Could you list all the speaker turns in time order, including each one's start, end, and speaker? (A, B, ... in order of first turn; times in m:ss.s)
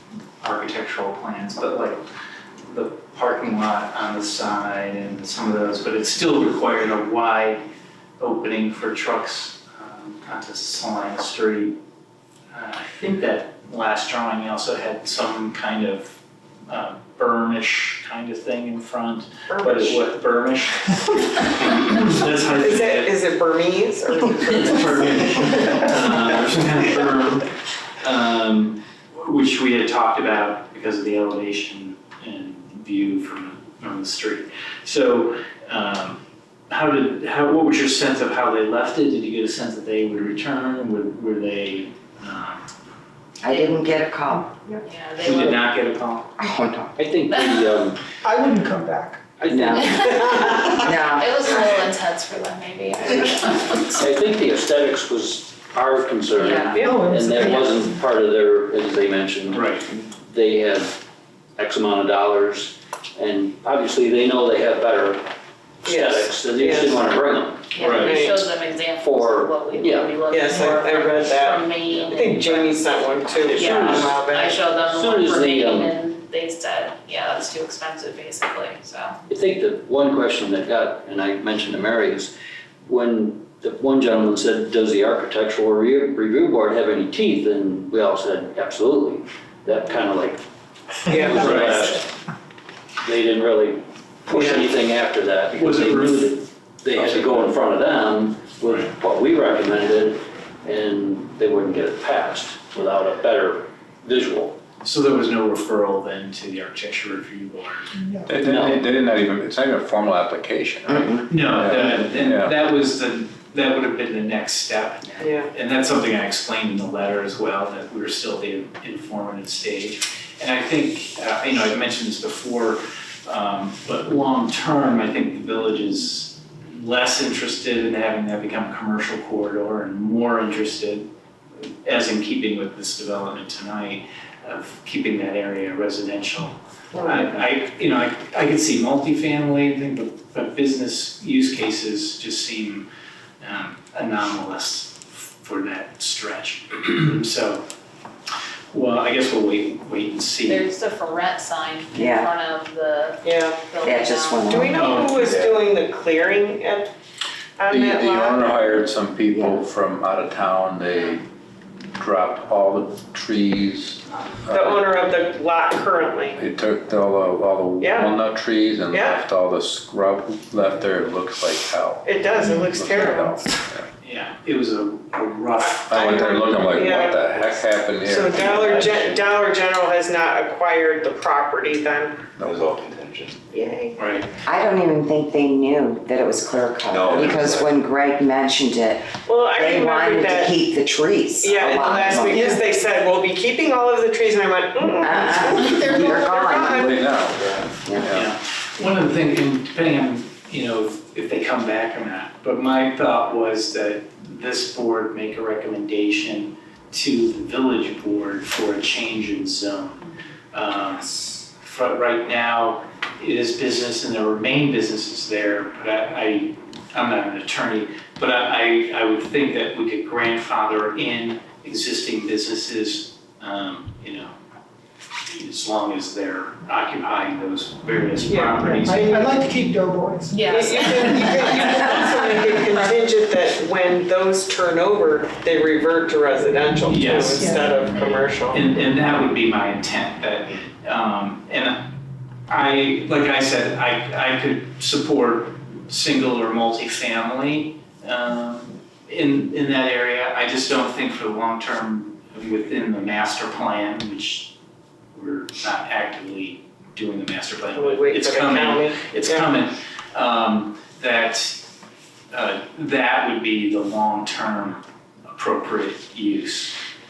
0:00.4-0:02.0 A
0:02.7-0:07.6 A
0:08.2-0:11.8 A
0:12.5-0:16.2 A
0:16.7-0:23.1 A
0:19.5-0:20.0 B
0:22.5-0:25.8 B
0:24.4-0:27.5 A
0:28.0-0:36.2 A
0:36.7-0:42.6 A
0:43.4-0:44.7 C
0:44.8-0:45.6 D
0:45.2-0:46.3 A
0:46.4-0:47.0 C
0:47.0-0:48.0 E
0:47.3-0:47.7 D
0:48.2-0:49.2 F
0:49.4-0:50.7 B
0:49.4-0:49.9 E
0:49.4-0:51.4 C
0:49.7-0:54.0 D
0:54.0-1:01.0 E
0:56.4-0:56.9 D
0:56.9-0:57.6 F
0:59.5-0:59.9 A
1:01.6-1:05.2 E
1:05.8-1:07.8 E
1:05.8-1:07.1 B
1:07.7-1:12.9 D
1:07.8-1:08.2 A
1:08.0-1:08.4 B
1:09.0-1:10.2 E
1:10.3-1:14.6 B
1:13.4-1:19.2 D
1:13.5-1:14.2 E
1:14.9-1:15.9 E
1:19.3-1:22.3 E
1:22.9-1:30.4 E
1:31.0-1:32.1 E
1:31.1-1:31.9 B
1:31.4-1:31.7 A
1:31.5-1:31.8 G
1:33.0-1:44.6 E
1:34.3-1:34.7 B
1:35.5-1:36.4 A
1:44.8-1:48.0 A
1:48.2-1:52.5 G
1:48.4-1:48.8 E
1:50.9-1:51.2 C
1:51.3-2:11.1 A
1:55.2-1:55.5 B
2:11.8-2:22.9 A
2:16.9-2:17.2 B
2:23.4-2:27.6 A
2:28.7-2:30.7 A
2:30.4-2:35.1 D
2:31.9-2:32.3 C
2:33.2-2:33.6 B
2:33.8-2:35.0 C
2:34.5-2:36.9 B
2:34.7-2:35.2 A
2:35.1-2:35.6 G
2:37.6-2:38.8 B
2:37.7-2:41.2 G
2:39.3-2:39.6 C
2:42.0-2:44.9 G
2:44.5-2:46.4 B
2:46.3-2:53.9 G
2:47.8-2:48.2 B
2:48.9-2:49.2 B
2:52.0-2:53.5 B
2:52.6-2:53.0 H
2:54.0-2:56.0 A
2:55.6-3:02.2 B
2:55.9-2:59.2 G
3:02.4-3:02.8 G
3:02.4-3:03.3 H
3:03.5-3:04.0 B
3:04.0-3:04.3 A
3:04.4-3:12.6 C
3:06.9-3:07.7 H
3:07.0-3:07.4 G
3:09.2-3:10.5 B
3:11.4-3:17.0 B
3:15.0-3:17.1 C
3:16.7-3:18.3 G
3:17.3-3:17.8 H
3:17.8-3:18.1 C
3:18.1-3:44.3 A
3:45.3-3:49.3 A
3:48.2-3:49.3 B
3:48.7-3:50.4 F
3:50.3-3:53.1 D
3:50.4-3:58.6 B
3:56.8-3:57.7 A
3:58.5-4:01.8 A
4:02.5-4:14.5 A
4:15.1-4:21.6 A
4:17.7-4:19.5 B
4:22.3-4:24.8 A
4:25.3-4:26.8 A